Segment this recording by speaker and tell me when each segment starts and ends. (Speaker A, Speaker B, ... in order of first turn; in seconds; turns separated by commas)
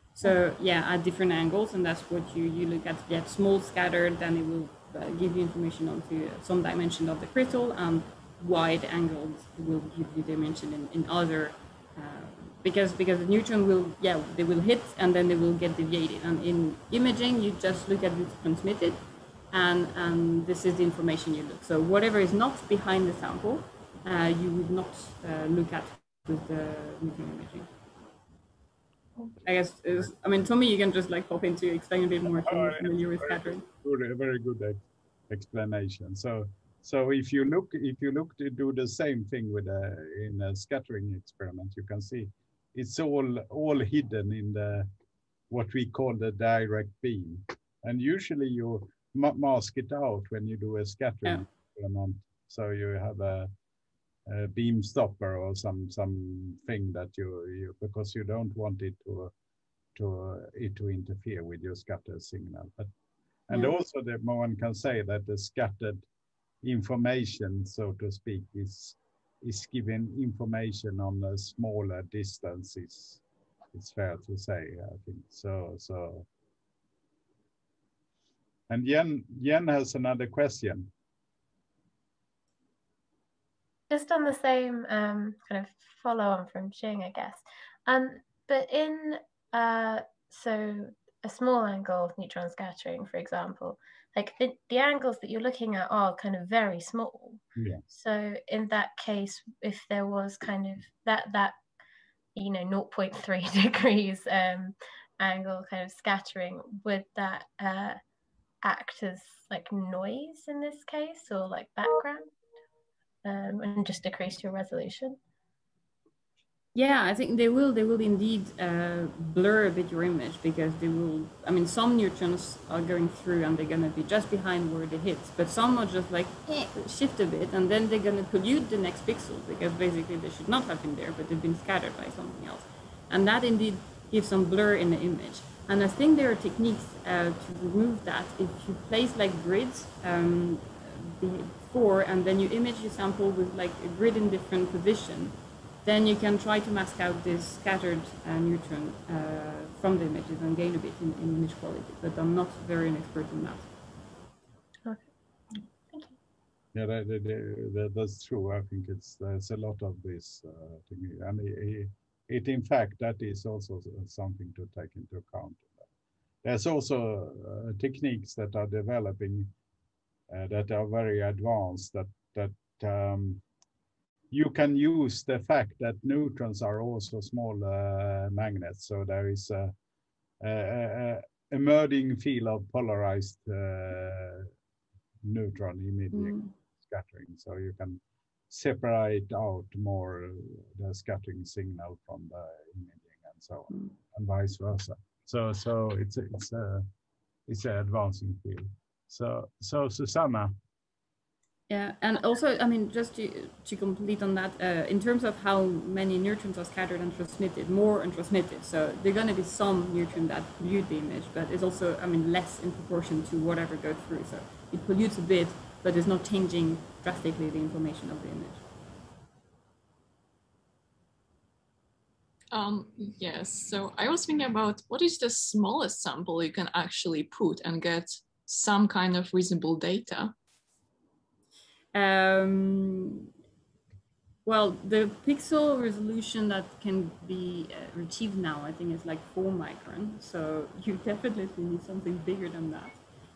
Speaker A: 0.1-19.0, Speaker A: 19.5-27.7, Speaker A: 29.4-33.6, Speaker B: 32.3-44.9, Speaker B: 45.5-53.5, Speaker B: 54.2-59.3, Speaker B: 59.9-62.9, Speaker B: 63.5-66.0, Speaker B: 66.6-73.2, Speaker B: 73.7-76.3, Speaker B: 78.7-80.9, Speaker C: 83.9-101.6, Speaker B: 97.5-97.8, Speaker C: 102.3-108.0, Speaker C: 108.6-112.2, Speaker C: 113.2-115.2, Speaker A: 116.7-153.7, Speaker C: 154.8-156.2, Speaker B: 156.7-165.8, Speaker B: 166.4-169.5, Speaker B: 170.3-173.4, Speaker B: 174.3-179.7, Speaker B: 180.4-184.5, Speaker B: 185.2-196.8, Speaker A: 186.1-186.5, Speaker B: 197.5-200.5, Speaker A: 201.7-218.6, Speaker D: 222.5-230.3, Speaker A: 231.9-233.3, Speaker A: 234.4-243.0